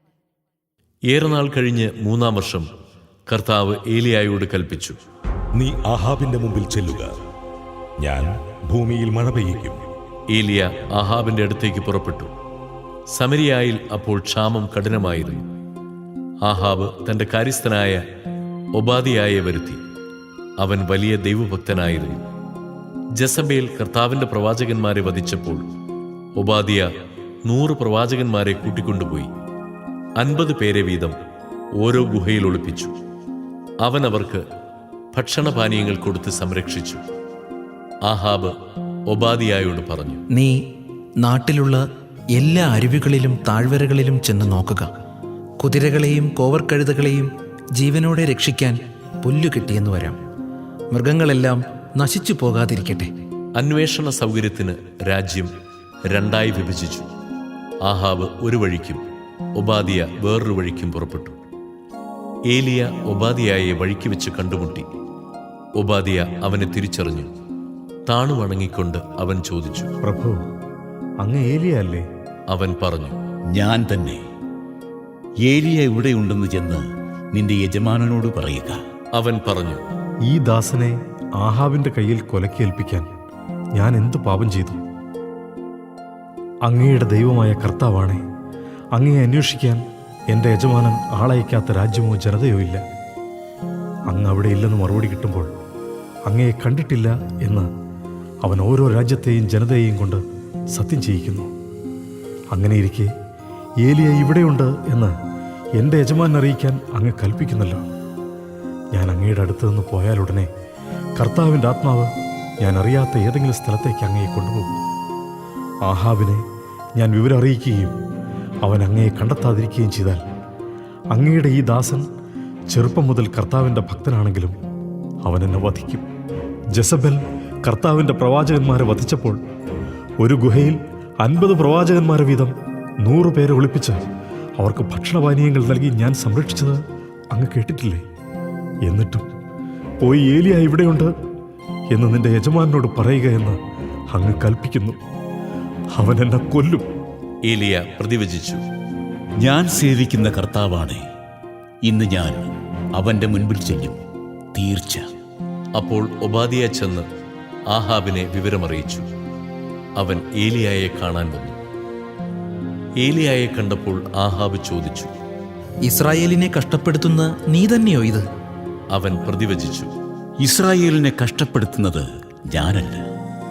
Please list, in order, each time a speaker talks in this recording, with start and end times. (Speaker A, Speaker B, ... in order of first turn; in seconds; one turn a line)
Speaker A: 1.1-2.7
Speaker A: 3.3-4.9
Speaker B: 5.5-7.2
Speaker B: 8.0-9.8
Speaker A: 10.3-12.3
Speaker A: 13.1-15.4
Speaker A: 16.4-18.0
Speaker A: 18.7-19.8
Speaker A: 20.6-22.2
Speaker A: 23.1-25.6
Speaker A: 26.4-26.9
Speaker A: 27.4-29.3
Speaker A: 30.2-31.1
Speaker A: 31.8-32.9
Speaker A: 33.8-34.4
Speaker A: 35.1-37.0
Speaker A: 38.0-38.5
Speaker A: 39.1-40.2
Speaker C: 40.3-40.6
Speaker C: 41.2-41.8
Speaker C: 42.3-44.9
Speaker C: 45.6-50.2
Speaker C: 50.9-53.1
Speaker A: 53.5-55.5
Speaker A: 56.1-57.1
Speaker A: 57.8-59.0
Speaker A: 59.5-61.4
Speaker A: 62.5-64.8
Speaker A: 65.8-67.3
Speaker A: 68.1-69.9
Speaker D: 70.0-70.4
Speaker D: 71.2-72.0
Speaker A: 72.5-73.2
Speaker E: 73.5-74.2
Speaker E: 75.4-78.8
Speaker A: 79.1-79.8
Speaker D: 80.3-83.1
Speaker D: 83.8-84.8
Speaker D: 86.6-88.2
Speaker D: 88.9-92.8
Speaker D: 94.1-95.5
Speaker D: 96.3-97.7
Speaker D: 98.4-100.2
Speaker D: 100.7-101.5
Speaker D: 102.5-103.1
Speaker D: 103.8-105.1
Speaker D: 105.8-107.8
Speaker D: 108.9-110.5
Speaker D: 111.2-112.1
Speaker D: 112.6-114.7
Speaker D: 115.8-116.4
Speaker D: 117.0-117.9
Speaker D: 118.6-120.2
Speaker D: 121.1-122.0
Speaker D: 122.7-124.5
Speaker D: 125.2-126.0
Speaker D: 126.8-129.4
Speaker D: 130.2-134.0
Speaker D: 134.6-136.8
Speaker D: 137.3-138.0
Speaker D: 138.8-139.2
Speaker D: 140.0-141.1
Speaker D: 141.9-143.6
Speaker D: 144.1-145.0
Speaker D: 145.9-146.8
Speaker A: 147.4-148.6
Speaker E: 149.4-151.0
Speaker E: 151.8-154.0
Speaker E: 154.5-155.1
Speaker A: 155.7-157.1
Speaker A: 157.7-159.1
Speaker A: 160.0-161.6
Speaker A: 163.0-165.1
Speaker C: 165.8-168.2
Speaker A: 168.9-169.9
Speaker E: 170.4-173.0